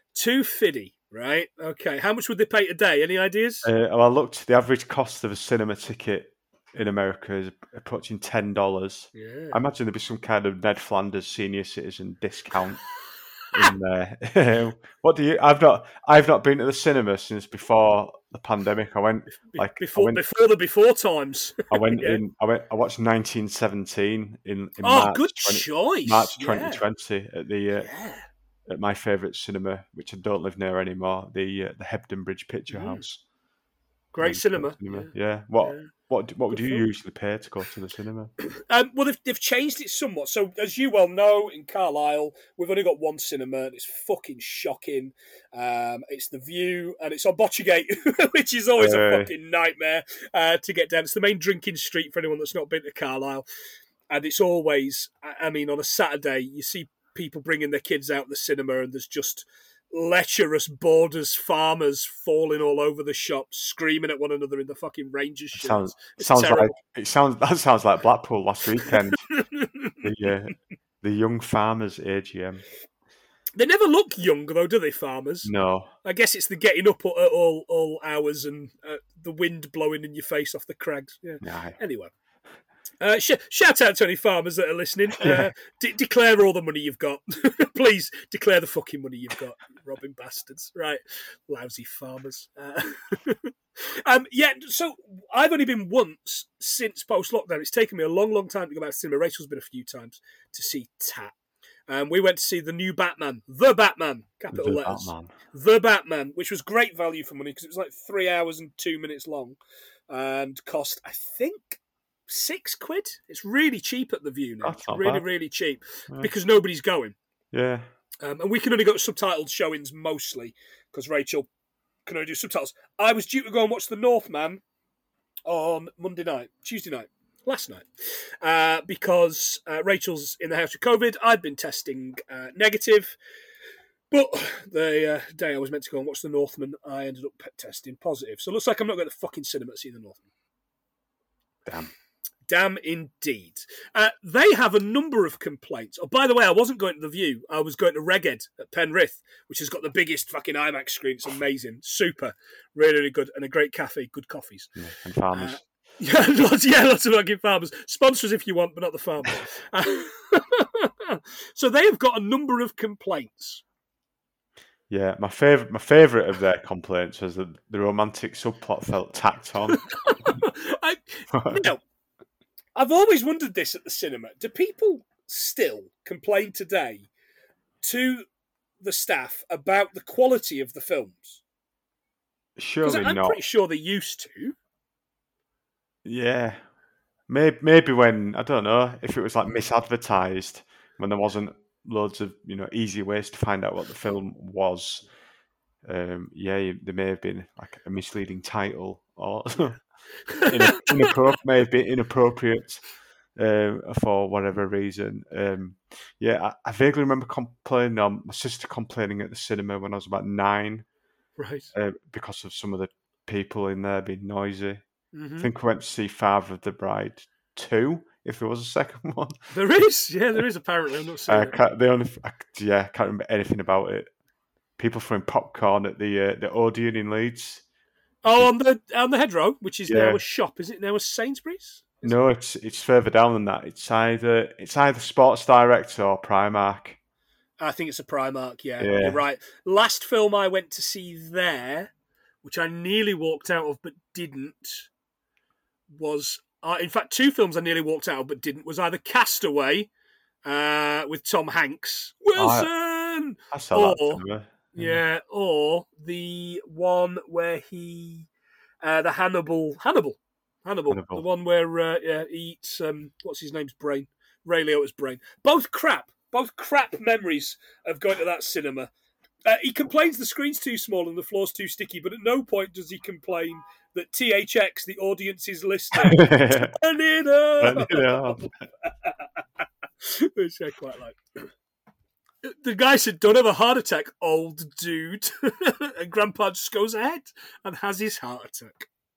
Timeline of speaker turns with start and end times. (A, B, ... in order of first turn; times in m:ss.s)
0:00.2-0:03.7 A
0:03.6-0:12.8 B
0:09.1-0:09.6 A
0:13.5-0:20.2 B
0:19.5-0:22.2 A
0:21.7-0:27.9 B
0:24.8-0:26.8 A
0:27.8-0:28.3 A
0:28.7-0:33.2 B
0:32.7-0:33.1 A
0:34.1-0:35.9 A
0:34.2-0:38.3 B
0:36.5-0:36.9 A
0:38.5-0:53.4 A
0:48.8-0:49.3 B
0:54.1-1:06.7 A
1:05.5-1:09.2 B
1:08.9-1:10.0 A
1:10.0-1:12.6 B
1:13.6-1:15.5 A
1:15.4-1:15.9 B
1:16.0-1:22.1 A
1:21.4-1:21.8 B
1:23.0-1:41.3 A
1:25.1-1:25.5 B
1:41.9-1:49.6 A
1:44.5-1:45.3 B
1:50.1-1:57.2 A
1:54.6-1:55.3 B
1:57.5-1:57.9 B
1:58.2-2:01.5 A
2:02.1-2:04.6 A
2:05.5-2:13.2 A
2:14.1-2:20.2 A
2:21.7-2:21.9 B
2:22.5-2:34.7 A
2:34.8-2:35.6 B
2:35.3-2:43.6 A
2:44.9-2:50.4 B
2:49.9-2:51.8 A
2:51.3-2:51.7 B
2:52.8-2:57.1 A
2:57.8-2:58.3 A
2:58.8-3:01.4 A
3:02.6-3:03.4 B
3:02.8-3:04.6 A
3:06.0-3:06.6 B
3:07.3-3:15.1 B
3:15.8-3:19.8 B
3:20.3-3:21.0 A
3:20.4-3:22.8 B
3:23.4-3:30.8 B
3:31.4-3:31.7 A
3:31.7-3:34.8 B
3:35.1-3:35.5 A
3:35.4-3:39.4 B
3:39.5-3:41.6 A
3:41.3-3:44.1 B
3:44.8-3:47.6 B
3:48.2-3:52.2 A
3:49.9-3:50.2 B
3:52.0-3:57.0 B
3:57.6-4:01.9 A
3:58.8-3:59.2 B
4:02.4-4:04.9 A
4:05.9-4:09.9 A
4:10.4-4:14.2 A
4:12.4-4:12.7 B
4:13.5-4:15.0 B
4:14.7-4:18.3 A
4:18.8-4:28.9 A
4:20.9-4:21.2 B
4:29.4-4:39.3 A
4:35.9-4:36.8 B
4:37.6-4:38.5 B
4:40.0-4:41.2 A
4:42.4-4:48.9 A